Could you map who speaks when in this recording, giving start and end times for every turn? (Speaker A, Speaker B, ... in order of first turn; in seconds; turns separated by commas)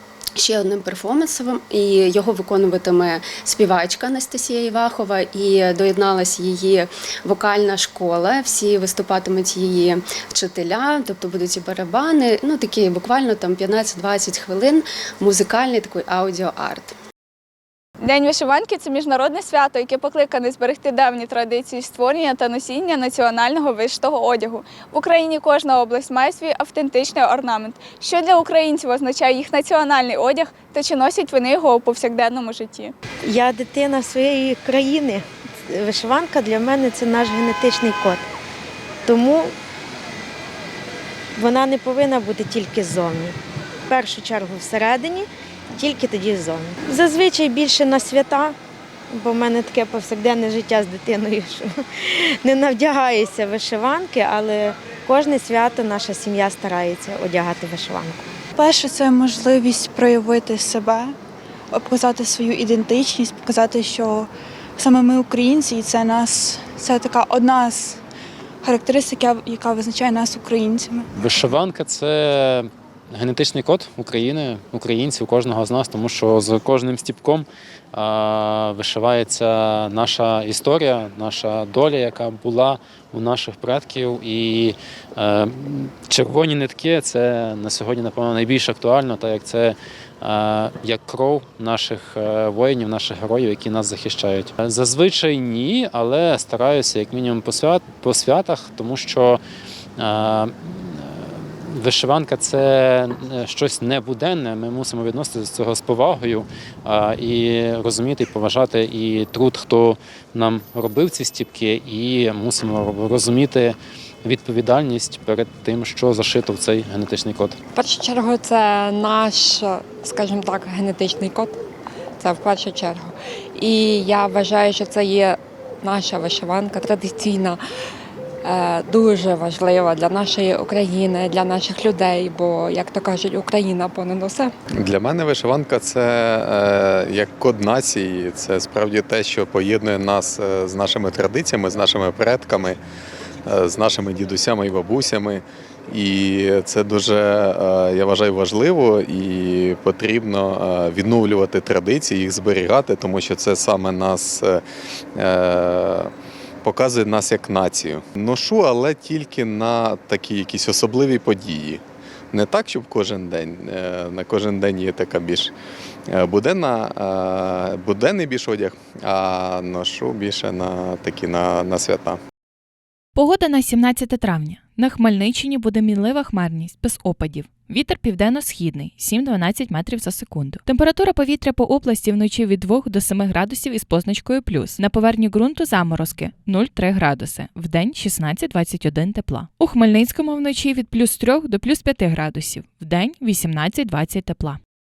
Speaker A: 0.4-16.9, Speaker B: 18.0-32.9, Speaker C: 33.3-38.2, Speaker C: 39.1-39.5, Speaker C: 41.4-43.3, Speaker C: 43.9-45.3, Speaker C: 45.8-48.5, Speaker C: 49.1-51.8, Speaker C: 52.4-58.2, Speaker D: 58.6-61.1, Speaker D: 61.7-68.0, Speaker D: 68.6-71.0, Speaker E: 71.2-99.4, Speaker E: 100.0-117.6, Speaker F: 117.7-121.5, Speaker F: 122.2-127.6, Speaker F: 128.4-134.5, Speaker G: 134.8-142.8, Speaker G: 143.4-154.6, Speaker G: 155.2-156.1, Speaker G: 156.6-161.8, Speaker G: 162.3-165.5, Speaker G: 166.1-172.2, Speaker H: 173.1-194.6